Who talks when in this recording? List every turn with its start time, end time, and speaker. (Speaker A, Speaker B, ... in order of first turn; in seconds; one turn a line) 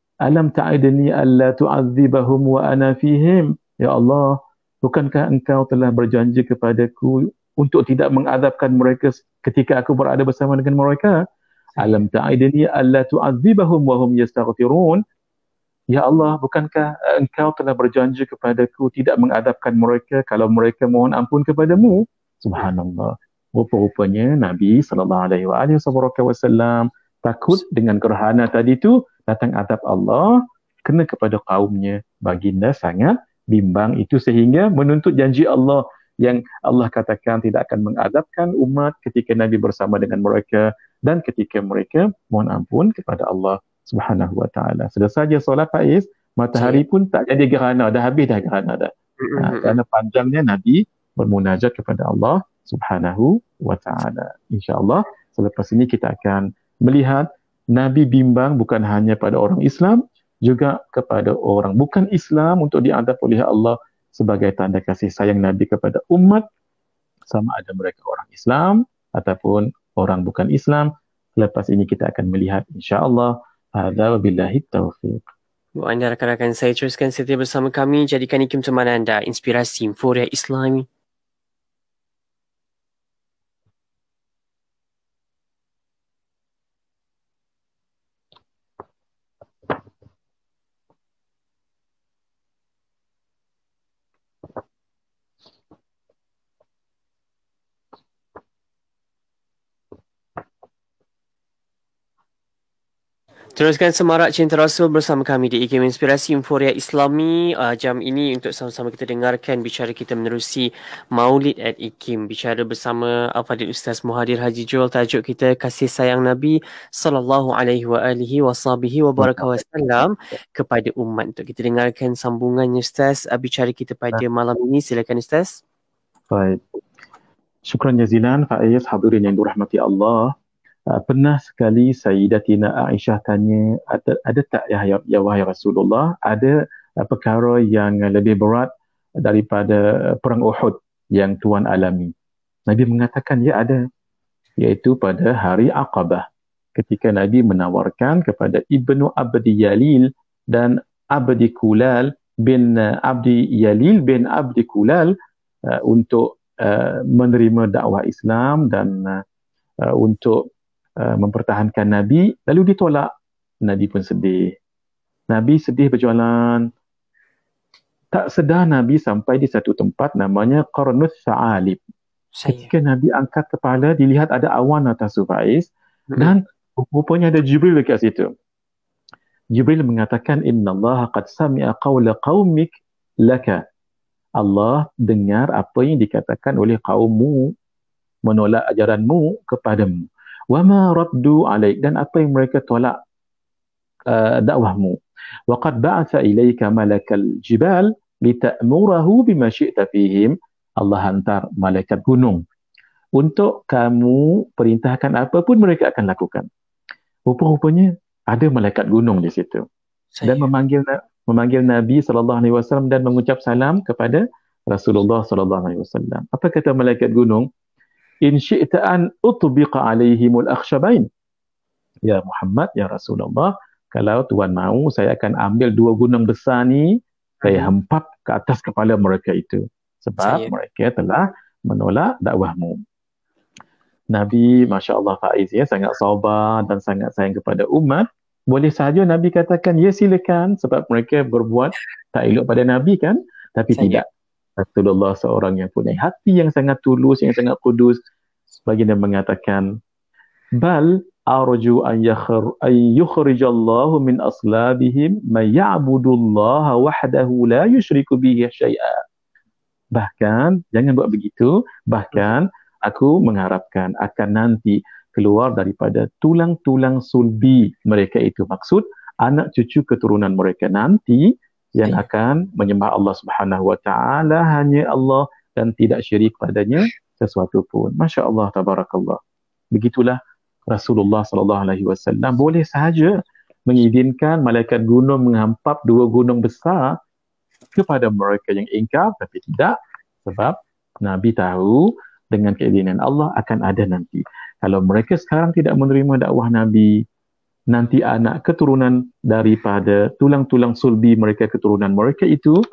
Speaker A: 0.2-11.2
Speaker B: 11.8-12.0
Speaker A: 11.8-15.0
Speaker A: 15.9-66.4
Speaker B: 46.5-46.8
Speaker B: 49.2-49.8
Speaker A: 67.3-75.2
Speaker B: 75.8-80.9
Speaker B: 103.5-125.6
Speaker A: 119.2-119.6
Speaker A: 126.3-126.6
Speaker A: 127.7-130.3
Speaker A: 130.9-138.7
Speaker A: 139.2-142.1
Speaker A: 142.7-143.8
Speaker A: 144.6-155.1
Speaker A: 155.7-159.2
Speaker A: 159.8-160.4
Speaker A: 161.0-163.1
Speaker A: 163.6-164.5
Speaker A: 165.3-166.7
Speaker A: 168.1-171.8
Speaker B: 172.3-172.7
Speaker A: 172.5-178.3
Speaker A: 179.5-182.7
Speaker A: 183.2-183.6
Speaker A: 184.4-187.5
Speaker A: 188.2-193.0
Speaker A: 194.1-194.9
Speaker A: 195.5-202.4
Speaker A: 203.2-206.5
Speaker A: 207.3-209.6
Speaker B: 210.2-210.5
Speaker A: 210.2-217.5
Speaker A: 218.2-221.1
Speaker A: 222.1-232.8
Speaker B: 227.4-227.7
Speaker B: 230.2-230.5
Speaker A: 234.1-244.0
Speaker B: 243.7-244.0
Speaker A: 244.6-248.0
Speaker A: 248.7-249.6
Speaker A: 250.6-259.0
Speaker A: 259.9-279.2
Speaker A: 279.7-286.9
Speaker A: 287.7-297.0
Speaker A: 297.7-302.6